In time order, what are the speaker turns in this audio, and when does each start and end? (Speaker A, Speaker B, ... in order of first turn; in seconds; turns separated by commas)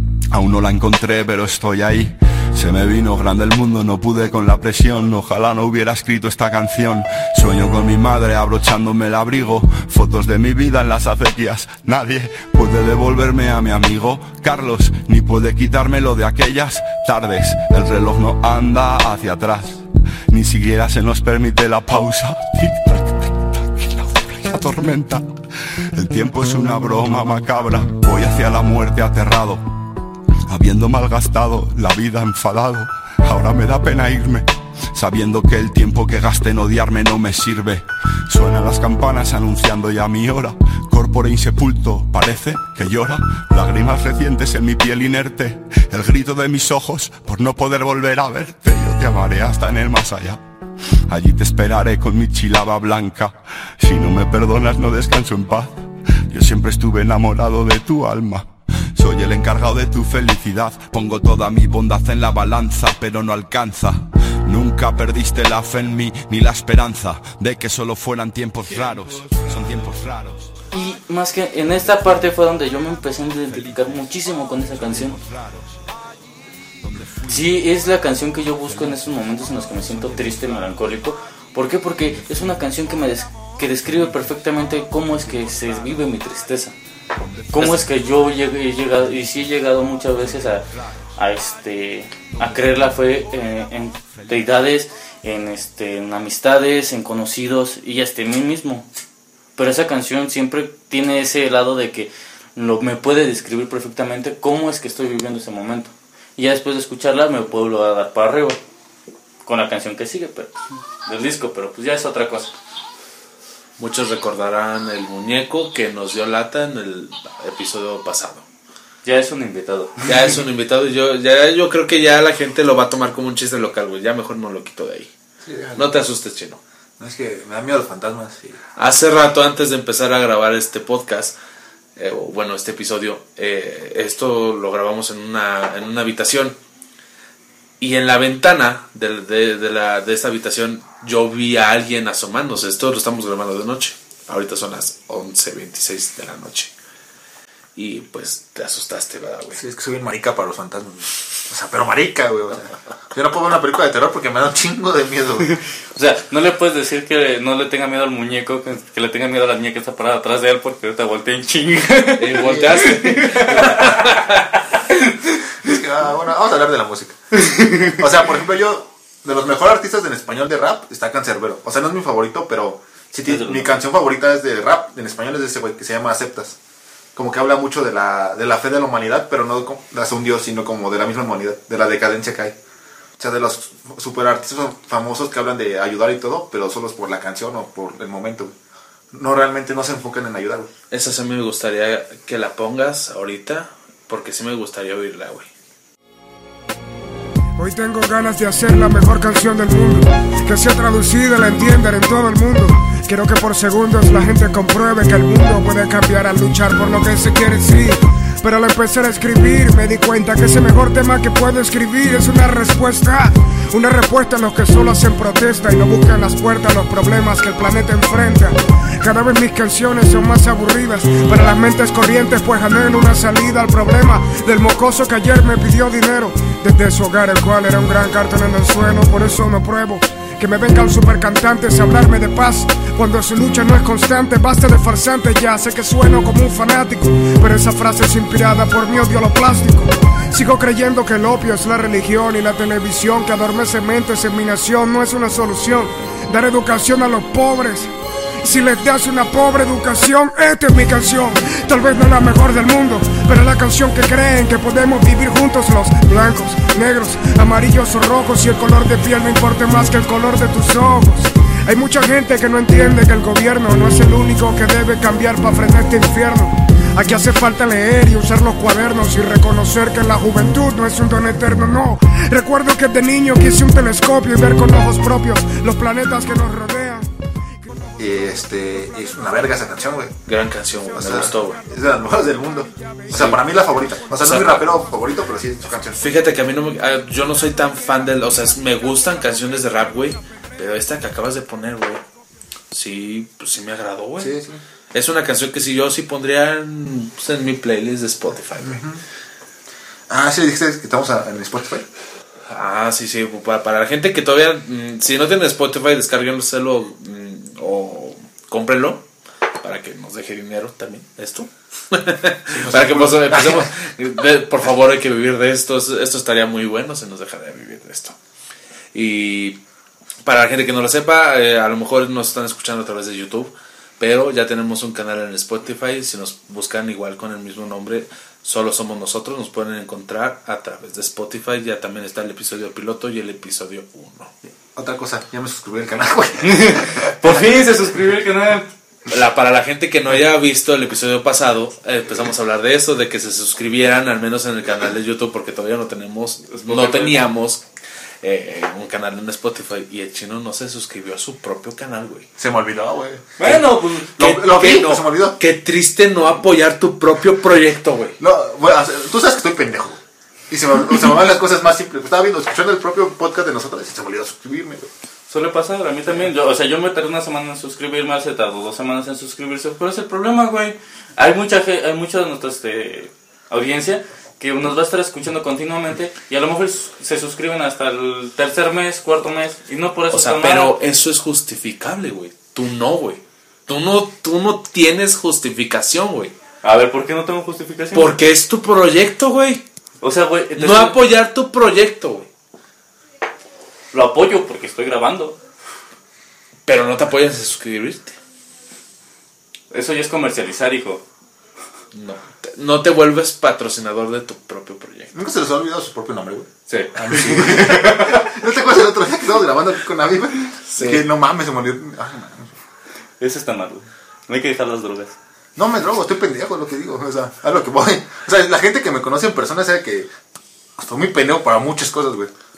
Speaker A: 0.3-25.3, Speaker A: 25.9-29.6, Speaker A: 30.5-50.4, Speaker A: 51.1-70.5, Speaker B: 70.7-75.2, Speaker A: 71.9-72.3, Speaker A: 73.5-74.1, Speaker A: 74.6-75.8, Speaker A: 76.8-77.4, Speaker B: 77.2-86.7, Speaker A: 78.8-79.1, Speaker A: 79.8-80.5, Speaker A: 85.2-85.7, Speaker A: 87.2-87.8, Speaker B: 87.5-98.9, Speaker B: 99.5-108.6, Speaker B: 109.5-110.5, Speaker B: 111.0-112.5, Speaker C: 113.8-118.4, Speaker B: 119.0-120.4, Speaker C: 120.0-125.1, Speaker D: 125.4-125.9, Speaker C: 125.8-126.6, Speaker D: 127.0-128.6, Speaker C: 128.8-131.3, Speaker C: 131.9-136.6, Speaker C: 137.8-146.7, Speaker C: 147.8-149.6, Speaker D: 149.6-155.6, Speaker B: 155.9-165.7, Speaker C: 162.2-164.6, Speaker D: 162.4-164.1, Speaker D: 165.6-167.2, Speaker B: 167.3-168.0, Speaker D: 167.9-176.6, Speaker B: 173.2-173.8, Speaker D: 177.1-182.5, Speaker D: 183.2-188.5, Speaker D: 189.1-190.7, Speaker C: 190.9-195.5, Speaker E: 197.6-277.1, Speaker E: 277.6-277.9, Speaker D: 278.0-280.1, Speaker C: 280.2-281.6, Speaker D: 281.0-286.0, Speaker E: 282.8-283.1, Speaker C: 283.1-283.4, Speaker C: 284.2-284.7, Speaker C: 285.9-292.0, Speaker C: 292.7-294.3, Speaker D: 294.2-294.6, Speaker C: 294.9-298.8, Speaker D: 298.6-299.0, Speaker D: 300.1-301.8, Speaker C: 302.5-309.0, Speaker C: 309.6-318.1, Speaker D: 312.5-313.7, Speaker C: 318.9-319.6, Speaker C: 320.2-334.3, Speaker D: 334.8-337.3, Speaker B: 336.4-338.7, Speaker C: 339.1-347.6, Speaker B: 346.5-347.2, Speaker C: 348.2-352.3, Speaker D: 352.4-353.6, Speaker B: 353.4-354.1, Speaker D: 354.2-355.4, Speaker C: 354.2-358.2, Speaker D: 358.2-364.9, Speaker B: 365.3-380.8, Speaker C: 380.1-386.3, Speaker B: 386.6-388.1, Speaker C: 387.9-389.6, Speaker B: 390.0-391.0, Speaker C: 390.6-392.3, Speaker B: 393.9-395.4, Speaker C: 396.6-398.2, Speaker B: 399.7-401.0, Speaker C: 401.9-405.1, Speaker D: 405.1-412.5, Speaker B: 406.7-408.3, Speaker C: 410.7-411.0, Speaker B: 413.2-415.1, Speaker D: 415.6-420.1, Speaker D: 420.8-422.3